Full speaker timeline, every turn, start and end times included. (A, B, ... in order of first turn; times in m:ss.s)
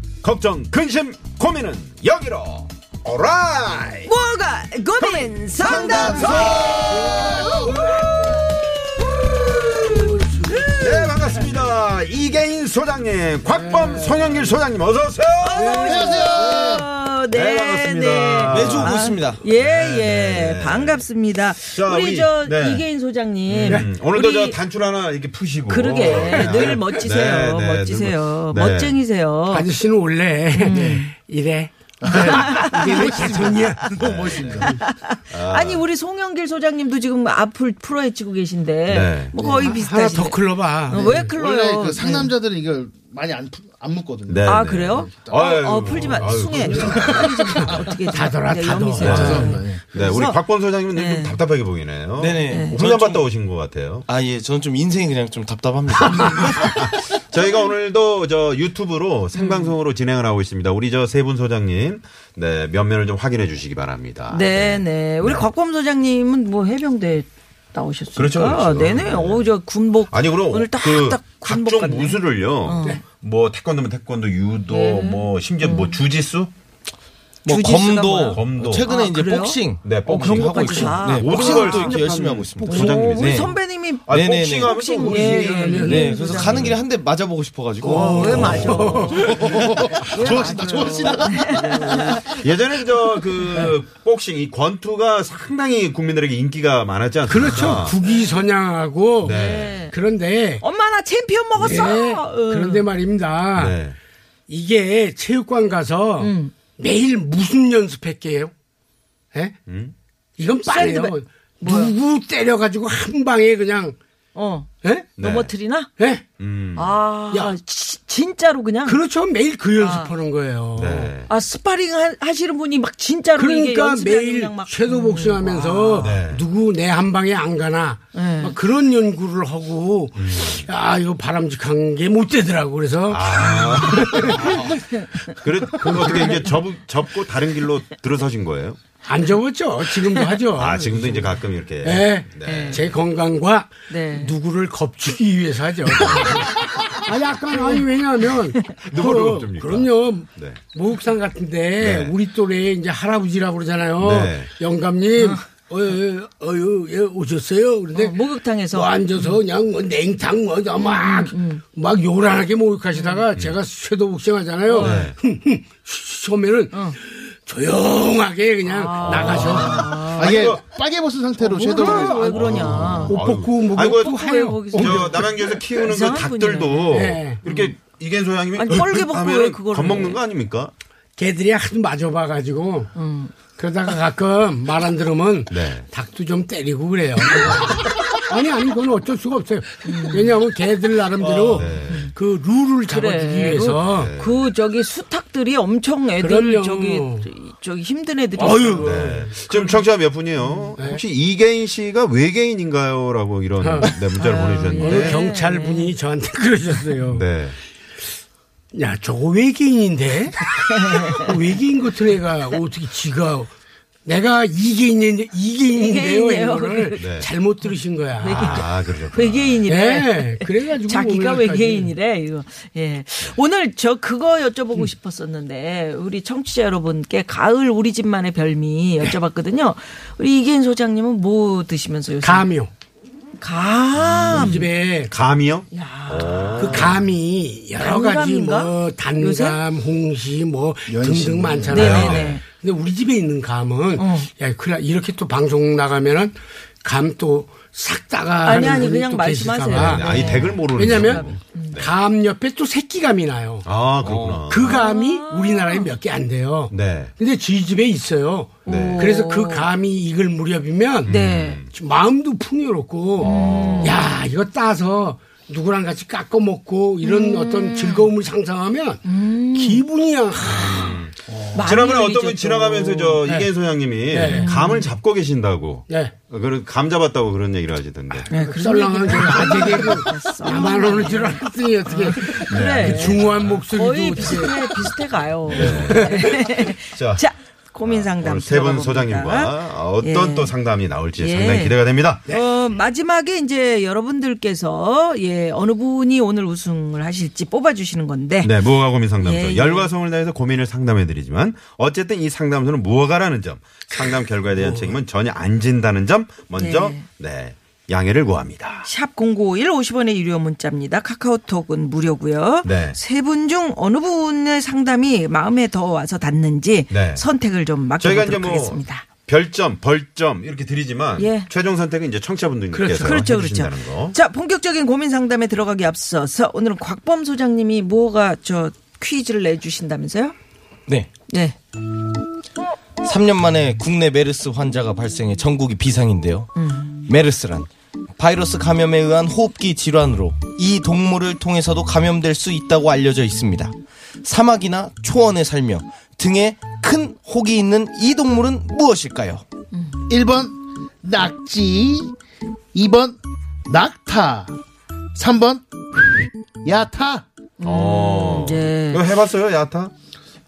0:00.2-0:04.1 A
0:04.0-0:07.9 B
0:05.6-0:10.0 A
0:06.0-0:06.5 C
0:06.6-0:07.7 D
0:07.7-0:08.1 E
0:09.8-0:11.0 E
0:10.4-0:11.4 B
0:10.8-0:16.0 A
0:13.5-0:14.6 E
0:15.4-0:24.6 B
0:15.7-0:15.9 E
0:15.7-0:16.9 D
0:17.3-0:21.1 A
0:18.5-0:19.4 C
0:21.7-0:22.8 A
0:23.5-0:29.0 A
0:25.7-0:29.7 B
0:26.0-0:27.0 E
0:29.5-0:34.0 E
0:30.6-0:31.1 B
0:32.0-0:34.8 D
0:32.1-0:33.2 B
0:33.9-0:34.7 A
0:34.4-0:42.3 B
0:35.3-0:35.8 A
0:38.9-0:39.6 A
0:39.4-0:41.3 E
0:41.0-0:45.4 D
0:44.3-0:47.8 A
0:44.5-0:50.4 B
0:46.7-0:47.3 D
0:48.1-0:49.5 E
0:49.0-0:54.1 A
0:49.0-0:49.8 D
0:50.9-0:51.4 B
0:52.2-0:53.3 C
0:52.5-0:52.8 B
0:54.1-0:56.7 C
0:56.1-1:05.5 A
0:59.3-0:59.8 B
1:04.3-1:13.0 B
1:08.2-1:09.5 A
1:10.1-1:16.5 A
1:14.7-1:16.0 B
1:17.4-1:23.5 C
1:17.5-1:26.8 B
1:18.3-1:18.8 A
1:19.8-1:25.7 A
1:24.1-1:24.8 C
1:25.0-1:26.1 E
1:25.6-1:29.6 C
1:26.4-1:26.8 A
1:27.8-1:32.2 B
1:28.1-1:29.3 A
1:28.5-1:29.4 E
1:29.4-1:32.3 D
1:32.2-1:38.0 A
1:37.3-1:40.6 E
1:38.1-1:38.4 B
1:39.2-1:39.8 A
1:39.2-1:40.0 B
1:40.6-1:42.8 B
1:41.6-1:43.8 E
1:43.6-1:44.0 A
1:44.5-1:48.5 E
1:46.2-1:46.5 B
1:49.3-1:49.6 E
1:49.7-1:49.9 A
1:50.4-1:54.0 E
1:50.7-1:52.0 B
1:54.4-1:55.9 B
1:54.8-1:55.1 E
1:55.2-1:55.5 A
1:56.0-1:56.2 E
1:56.4-1:57.0 A
1:56.8-1:59.0 B
1:58.8-2:01.1 E
1:59.8-2:00.1 B
2:00.8-2:01.3 A
2:01.3-2:06.1 B
2:03.4-2:14.8 E
2:06.0-2:06.4 A
2:08.1-2:08.6 B
2:10.2-2:10.6 A
2:13.1-2:18.8 A
2:15.8-2:16.5 E
2:15.9-2:16.4 B
2:19.0-2:38.2 E
2:20.6-2:22.9 A
2:22.4-2:22.8 B
2:23.9-2:24.3 B
2:26.0-2:26.6 A
2:28.7-2:30.6 A
2:31.8-2:32.1 A
2:34.0-2:34.5 A
2:37.9-2:39.4 B
2:38.7-2:50.4 E
2:40.8-2:41.6 B
2:42.9-2:43.2 B
2:44.7-2:45.1 B
2:44.8-2:45.2 A
2:46.7-2:47.0 B
2:48.7-2:50.4 B
2:49.0-2:50.6 A
2:50.2-2:52.2 D
2:51.4-2:55.6 E
2:51.5-2:53.2 B
2:52.3-3:00.7 A
2:53.8-2:57.7 B
2:56.9-2:57.4 E
2:58.5-3:00.2 B
3:01.2-3:02.9 E
3:03.0-3:03.3 B
3:03.5-3:14.1 E
3:05.5-3:05.9 A
3:09.8-3:10.3 B
3:11.2-3:12.1 A
3:11.6-3:12.1 B
3:12.9-3:19.8 B
3:13.9-3:14.4 A
3:16.2-3:17.3 E
3:18.4-3:19.4 E
3:18.8-3:25.2 A
3:20.4-3:20.7 B
3:23.6-3:24.0 E
3:24.2-3:25.9 B
3:24.7-3:27.3 E
3:27.1-3:27.6 A
3:28.7-3:30.4 E
3:30.7-3:31.2 B
3:31.0-3:33.5 E
3:34.1-3:38.7 E
3:35.7-3:37.0 B
3:37.0-3:37.3 A
3:37.7-3:52.5 B
3:38.3-3:39.6 A
3:39.7-3:41.9 E
3:52.2-3:52.7 E
3:53.4-3:54.7 B
3:54.3-3:55.1 E
3:55.1-3:57.0 A
3:55.7-3:56.9 B
3:56.6-4:13.7 E
3:57.8-3:59.6 B
4:00.9-4:01.9 D
4:01.7-4:02.4 A
4:01.7-4:02.4 B
4:04.0-4:04.3 B
4:08.4-4:11.8 B
4:09.7-4:11.9 A
4:13.6-4:14.8 A
4:14.0-4:14.5 C
4:14.5-4:21.1 E
4:14.6-4:15.9 B
4:16.7-4:17.1 A
4:18.6-4:19.7 B
4:18.7-4:19.0 A
4:21.0-4:21.7 A
4:21.1-4:21.6 B
4:21.7-4:31.0 E
4:23.2-4:24.1 A
4:23.2-4:24.1 B
4:27.0-4:28.1 B
4:29.0-4:29.8 B
4:30.5-4:38.3 A
4:31.6-4:33.2 B
4:33.2-4:33.5 E
4:34.1-4:34.5 E
4:34.2-4:34.9 B
4:35.9-4:36.2 E
4:38.3-4:50.6 B
4:38.3-4:44.9 E
4:42.5-4:43.6 A
4:45.5-4:46.4 A
4:45.5-4:46.4 E
4:46.9-4:47.2 A
4:47.8-4:52.2 A
4:51.2-4:58.6 B
4:58.4-5:08.9 A
4:59.2-4:59.9 B
5:06.6-5:07.0 B
5:08.8-5:19.0 B
5:12.6-5:13.0 A
5:16.9-5:17.2 A
5:18.0-5:24.2 A
5:21.2-5:21.5 B
5:22.7-5:23.2 E
5:23.0-5:30.4 B
5:31.3-5:31.6 B
5:33.0-5:36.5 C
5:36.6-5:37.0 B
5:37.1-5:43.7 C
5:44.2-5:49.4 C
5:49.7-5:50.0 B
5:50.1-5:52.1 D
5:52.7-5:54.6 D
5:55.2-5:55.6 D
5:56.6-5:57.3 D
5:57.6-5:59.1 B
5:57.6-5:59.9 A